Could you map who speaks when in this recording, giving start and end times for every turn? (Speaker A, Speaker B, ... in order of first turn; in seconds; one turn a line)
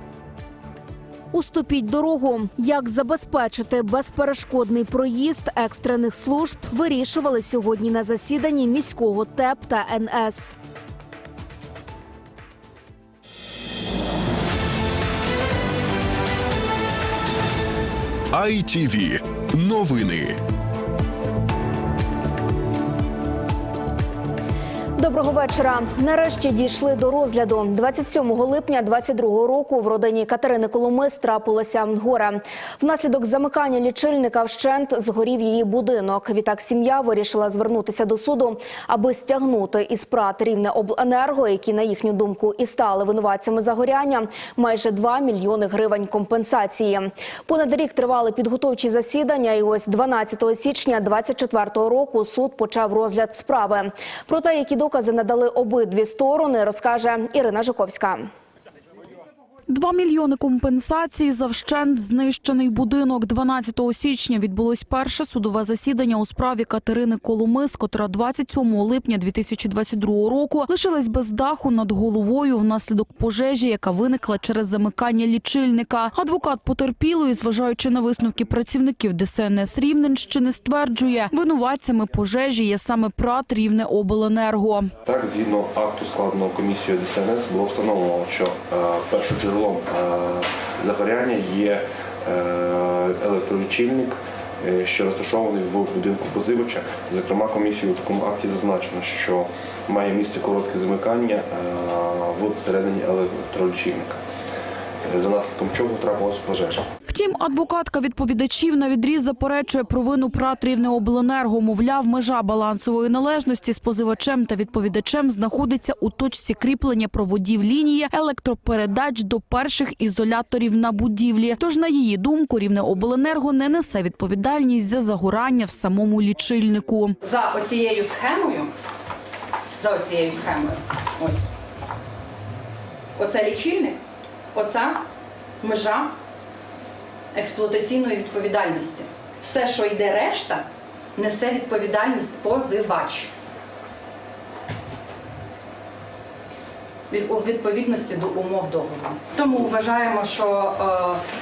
Speaker A: 1.3-10.6
Speaker B: 18.3-20.3
Speaker A: 25.0-58.3
Speaker C: 59.7-84.9
Speaker D: 85.0-104.2
Speaker D: 105.0-106.8
Speaker C: 107.1-127.2
Speaker E: 127.2-128.7
Speaker E: 129.8-131.4
Speaker E: 133.2-134.0
Speaker E: 134.5-135.0
Speaker E: 135.6-136.1
Speaker E: 137.3-143.3
Speaker E: 147.1-151.2